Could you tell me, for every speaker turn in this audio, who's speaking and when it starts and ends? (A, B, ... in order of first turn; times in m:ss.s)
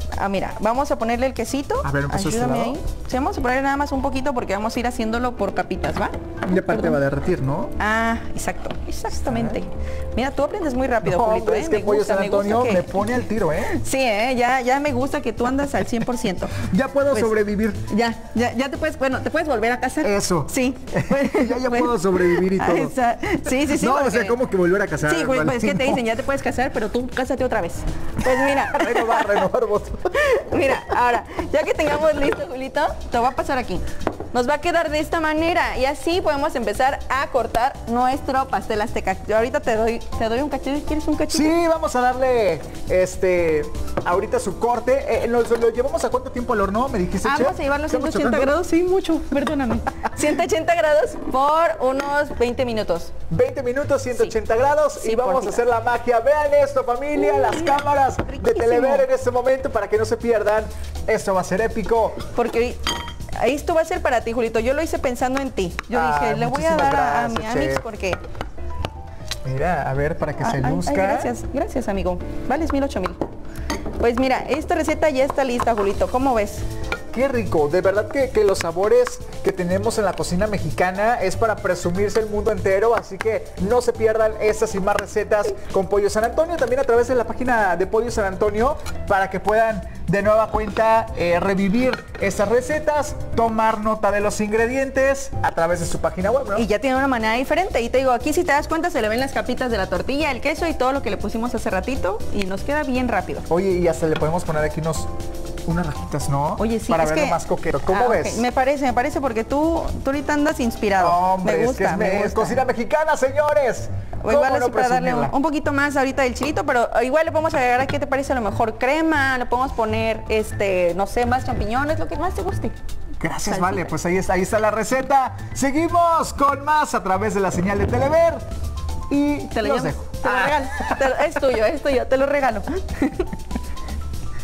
0:00.2-0:07.0 A
0:01.8-0:02.8 B
0:06.4-0:07.7 B
0:07.8-0:17.4 A
0:09.3-0:09.6 B
0:11.0-0:13.8 B
0:16.6-0:17.9 B
0:17.9-0:24.4 A
0:20.0-0:22.9 B
0:23.5-0:26.0 B
0:25.0-0:29.5 A
0:28.5-0:30.1 B
0:30.1-0:41.6 A
0:41.3-0:48.6 B
0:47.2-0:53.1 A
0:53.3-1:02.3 B
0:55.0-0:55.6 A
0:57.3-0:57.8 A
0:58.4-0:59.1 A
1:02.3-1:02.8 A
1:03.4-1:08.2 A
1:05.9-1:07.8 B
1:09.4-1:11.3 B
1:10.4-1:13.2 A
1:14.0-1:16.6 A
1:17.1-1:36.7 B
1:36.6-1:43.5 A
1:43.5-1:45.1 B
1:45.6-1:48.4 B
1:46.6-1:52.6 A
1:51.0-1:55.3 B
1:54.2-2:02.8 A
2:03.2-2:08.4 B
2:03.4-2:03.9 A
2:09.1-2:11.3 B
2:09.5-2:13.3 A